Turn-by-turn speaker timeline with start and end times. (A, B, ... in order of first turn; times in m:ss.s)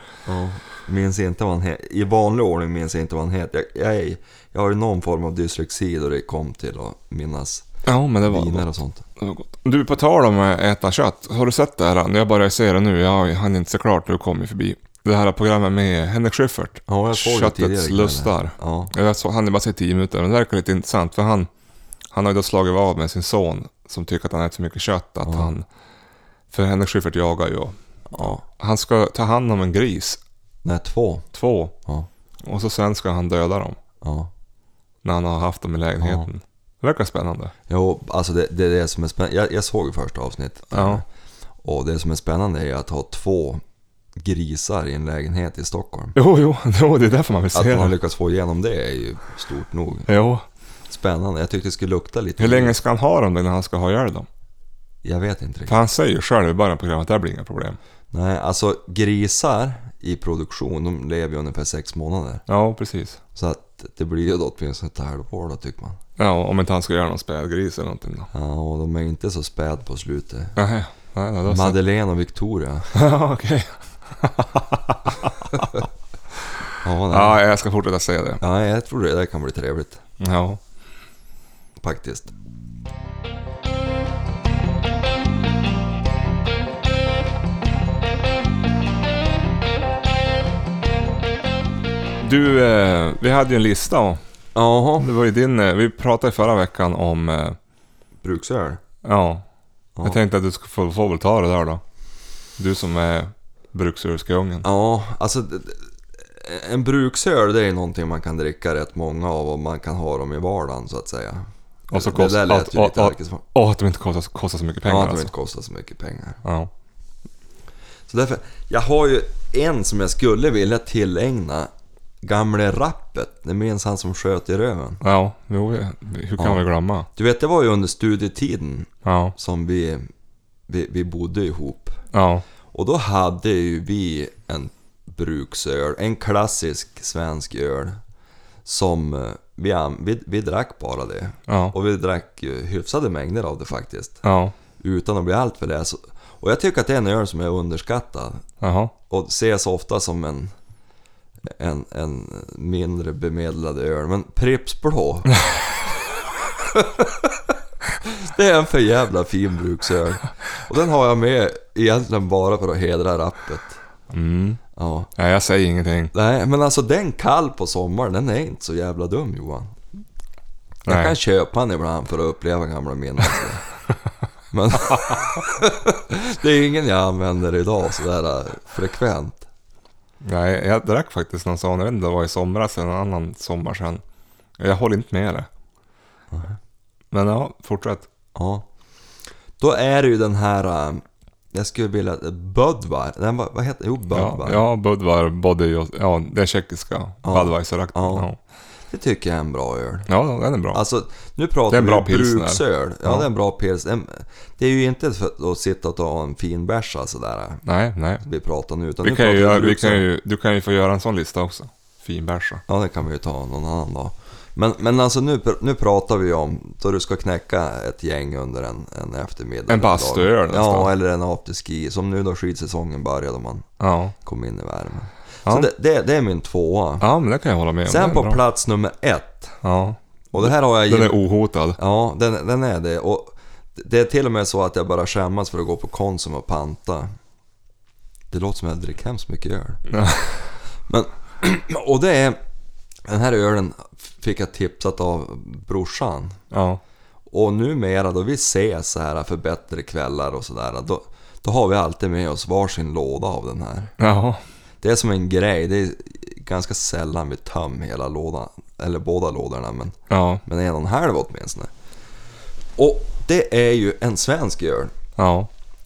0:00.3-0:07.7 A
0:07.8-0:21.5 B
0:08.2-0:09.0 A
0:16.9-0:18.9 A
0:22.1-0:25.7 B
0:25.2-0:25.5 A
0:26.5-0:30.2 B
0:28.1-0:28.4 A
0:30.6-0:31.3 A
0:31.3-0:31.8 B
0:32.4-0:33.8 B
0:34.0-0:34.3 A
0:35.0-0:37.5 B
0:36.0-0:36.3 A
0:37.7-0:41.0 A
0:40.7-0:41.0 B
0:41.6-0:43.6 A
0:44.2-0:46.2 A
0:46.2-0:47.9 B
0:47.5-0:50.1 A
0:50.1-0:50.4 B
0:50.9-0:52.8 A
0:52.4-0:54.3 B
0:55.0-0:55.8 A
0:55.7-0:57.8 B
0:58.1-1:02.4 A
1:02.5-1:03.2 B
1:03.4-1:06.0 A
1:06.2-1:08.3 B
1:08.3-1:10.6 A
1:10.6-1:11.8 B
1:11.4-1:13.0 A
1:12.9-1:15.7 B
1:16.8-1:17.4 A
1:17.1-1:18.4 B
1:18.4-1:20.0 A
1:20.2-1:20.6 B
1:21.8-1:22.3 A
1:32.2-1:34.2 B
1:34.6-1:35.1 A
1:35.0-1:37.6 B
1:38.2-1:38.8 A
1:39.0-1:39.4 B
1:40.0-1:41.8 B
1:42.6-1:44.6 B
1:44.6-1:53.4 A
1:51.9-1:55.3 B
1:54.8-1:56.4 A
1:56.4-1:56.7 B
1:58.1-2:01.7 A
2:02.2-2:05.0 A
2:05.0-2:07.1 B
2:06.4-2:10.1 A
2:09.0-2:09.4 B
2:10.7-2:12.0 A
2:12.1-2:12.4 B
2:12.7-2:18.0 A
2:18.6-2:24.2 A
2:21.5-2:21.8 B
2:24.2-2:24.5 B
2:24.8-2:28.4 A
2:28.6-2:28.9 B
2:29.1-2:30.5 A
2:31.5-2:37.4 A
2:38.0-2:43.8 A
2:44.1-2:44.6 B
2:44.8-2:45.1 A
2:45.2-2:46.1 B
2:46.1-2:49.8 A
2:50.8-2:53.7 A
2:50.9-2:51.2 B
2:54.5-2:59.5 A
3:00.2-3:04.0 B
3:04.6-3:05.5 B
3:06.3-3:06.6 A
3:07.1-3:08.1 B
3:08.4-3:08.7 A
3:09.6-3:14.6 A
3:14.1-3:18.4 B
3:17.2-3:18.3 A
3:18.9-3:20.1 A
3:20.1-3:20.8 B
3:20.7-3:27.6 A
3:21.7-3:23.3 B
3:27.7-3:28.2 B
3:28.2-3:30.0 A
3:29.0-3:32.6 B
3:32.7-3:43.7 A
3:39.7-3:40.9 B
3:43.8-3:44.2 B
3:44.2-3:47.1 A
3:47.0-3:48.4 B
3:47.9-3:49.6 A
3:49.6-3:51.8 B
3:50.3-3:51.2 A
3:51.8-3:57.1 A
3:58.3-3:59.8 A
3:59.9-4:00.5 B
4:00.9-4:02.4 A
4:03.1-4:06.4 A
4:06.5-4:06.8 B
4:07.3-4:14.0 A
4:14.0-4:14.4 B
4:14.8-4:21.7 A
4:20.1-4:20.4 B
4:22.8-4:24.9 A
4:25.2-4:25.5 B